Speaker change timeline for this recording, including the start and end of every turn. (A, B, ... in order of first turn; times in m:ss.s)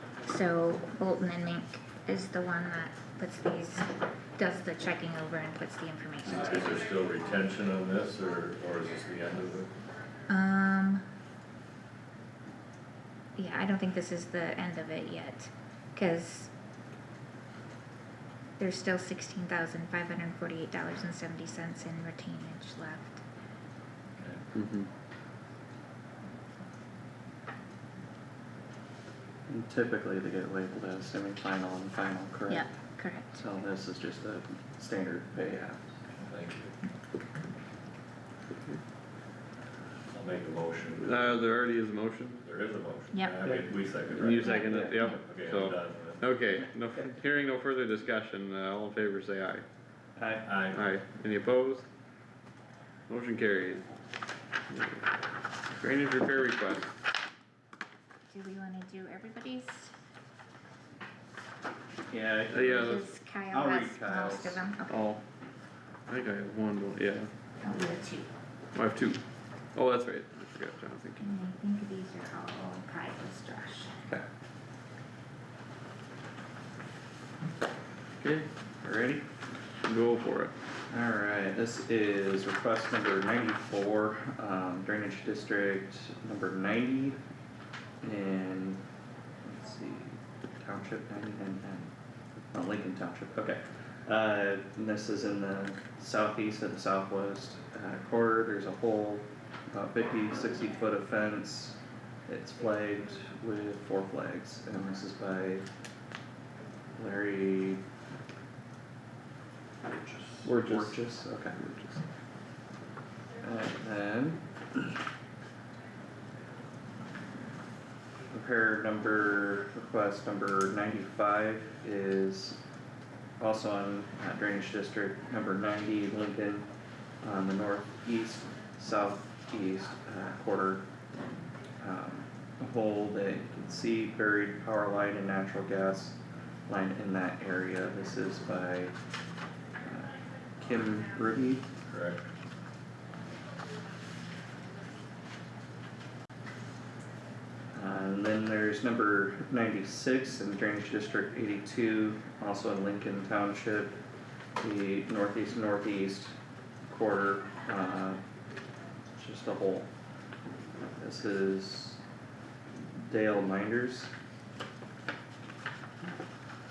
0:00.2-0:06.8 A
0:06.2-0:09.7 B
0:10.3-0:11.0 A
0:13.4-0:16.5 A
0:18.6-0:23.2 A
0:24.6-0:24.9 C
0:29.5-0:32.7 D
0:32.5-0:33.4 A
0:33.3-0:35.8 D
0:36.1-0:36.7 B
0:40.1-0:41.6 B
0:41.0-0:42.4 C
0:42.4-0:46.3 B
0:43.1-0:43.4 A
0:44.1-0:49.7 C
0:44.3-0:45.2 A
0:44.6-0:45.0 D
0:50.2-0:50.5 D
0:50.4-0:50.8 B
0:50.7-0:51.9 C
0:53.1-0:53.8 C
0:54.7-0:55.0 C
0:55.8-0:56.9 C
0:58.3-0:59.9 A
1:02.1-1:04.6 D
1:02.5-1:03.0 C
1:02.8-1:05.1 A
1:04.9-1:05.2 C
1:06.1-1:07.3 C
1:07.6-1:08.3 A
1:08.7-1:09.2 C
1:09.8-1:11.3 C
1:11.2-1:14.0 A
1:18.2-1:18.5 C
1:18.8-1:19.3 D
1:19.8-1:20.5 C
1:20.9-1:27.2 D
1:28.0-1:28.8 D
1:29.4-1:31.9 D
1:32.5-1:45.6 D
1:47.0-1:47.8 D
1:49.9-1:50.3 B
1:50.4-1:52.0 C
1:50.6-1:51.6 D
1:53.4-1:54.9 D
1:58.3-2:02.6 D
2:03.4-2:06.7 D
2:07.2-2:10.9 D
2:11.8-2:19.0 D
2:19.8-2:21.7 D
2:21.8-2:22.3 B
2:27.7-2:34.0 D
2:34.6-2:36.4 D
2:36.9-2:38.2 D
2:39.1-2:39.9 D
2:41.0-2:42.0 D
2:43.0-2:44.1 D